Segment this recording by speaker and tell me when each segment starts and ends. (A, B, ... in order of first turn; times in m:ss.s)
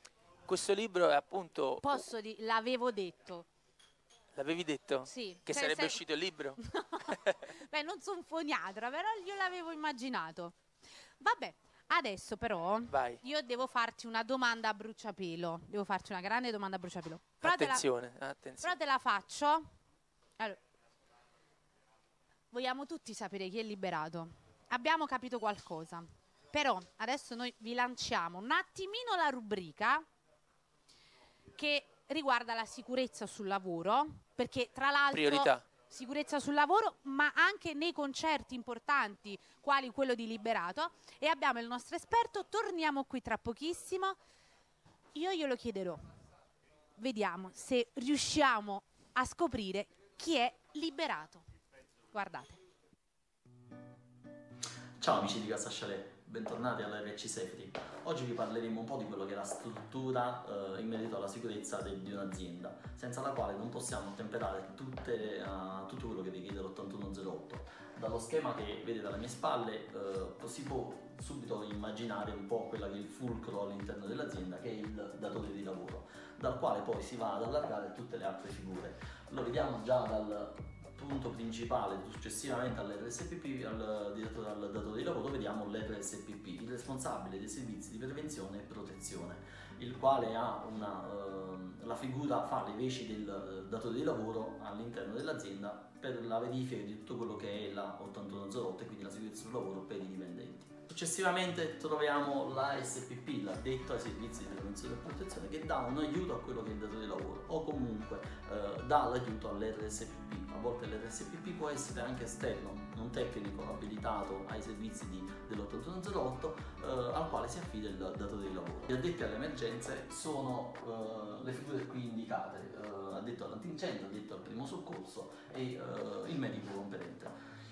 0:00.5-0:02.0 A
0:01.8-0:03.5 B
0:04.4-0:07.5 A
0:05.1-0:06.0 B
0:06.6-0:10.6 B
0:11.2-0:17.8 B
0:12.9-0:13.2 A
0:17.4-0:18.8 A
0:18.6-0:19.7 B
0:22.5-0:30.0 B
0:31.6-0:44.2 B
0:35.1-0:35.6 A
0:45.2-0:46.1 B
0:47.0-0:51.4 B
0:52.1-0:52.6 B
0:55.0-2:07.3 C